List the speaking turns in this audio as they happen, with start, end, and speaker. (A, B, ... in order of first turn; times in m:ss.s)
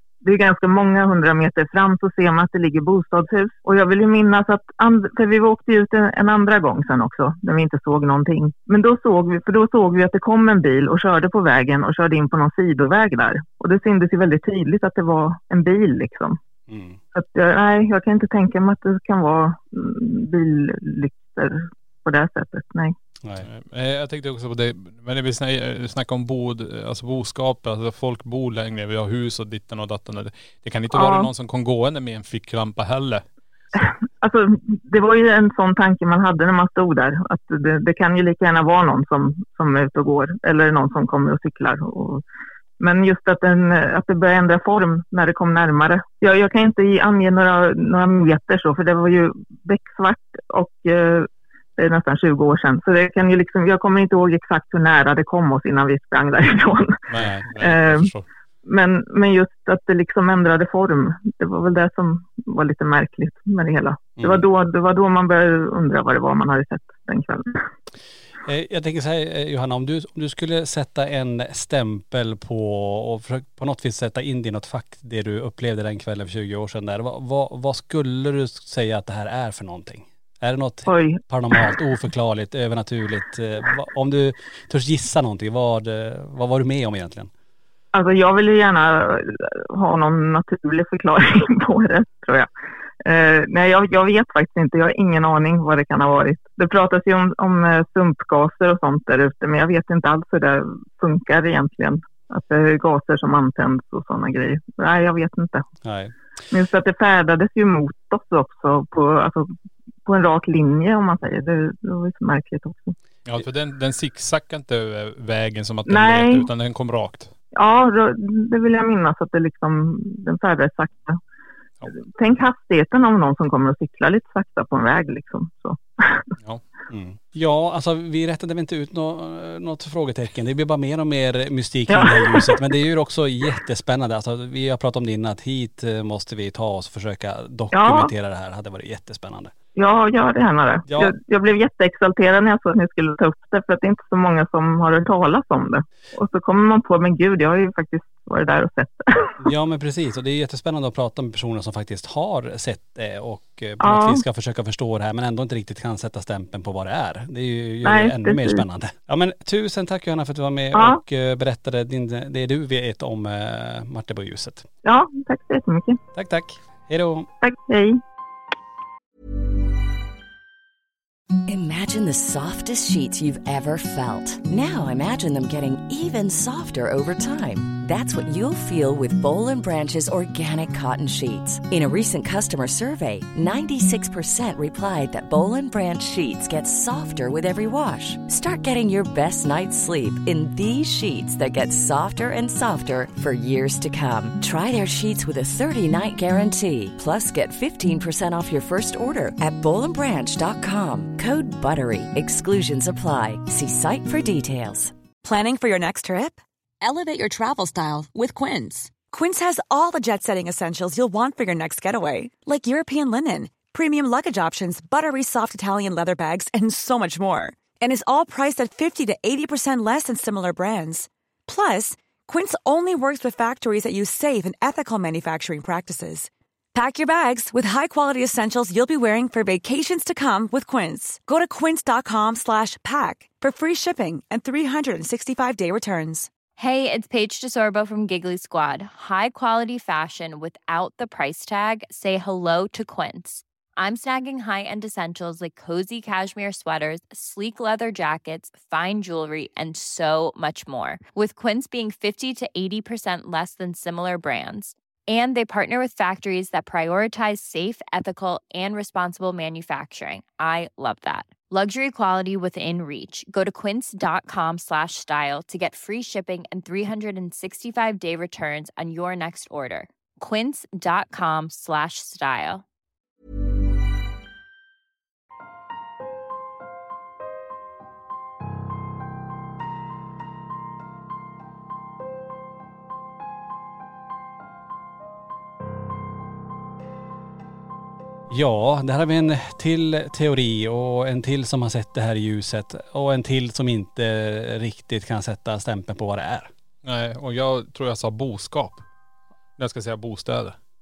0:00.2-0:16.4 A
0:16.7-0:17.0 B
0:17.1-0:22.9 A
0:23.4-0:33.2 C
0:30.9-0:31.3 A
0:34.2-0:42.2 A
0:42.8-0:57.0 A
0:57.1-0:58.2 C
0:57.1-0:57.5 B
0:57.6-0:58.1 A
0:58.6-1:07.6 A
1:04.2-1:04.5 B
1:08.4-1:27.3 B
1:20.9-1:21.2 A
1:27.9-1:32.5 A
1:33.0-1:45.6 A
1:45.8-1:46.1 B
1:46.5-1:49.5 A
1:50.0-1:52.9 A
1:53.2-1:57.3 C
1:55.8-1:56.5 A
1:57.6-2:01.2 A
2:01.9-2:06.3 A
2:06.9-2:19.5 B
2:11.9-2:12.7 A
2:17.7-2:18.1 A
2:19.8-2:29.4 A
2:20.9-2:21.1 B
2:29.4-2:44.7 B
2:33.8-2:34.2 A
2:37.8-2:38.6 A
2:40.7-2:41.0 A
2:44.8-2:46.0 A
2:46.1-2:47.3 B
2:47.4-2:48.0 A
2:51.5-3:24.9 D
3:25.2-3:56.3 E
3:56.6-4:32.6 F
4:48.3-4:56.5 B
4:56.8-4:58.8 C
4:59.6-5:00.6 C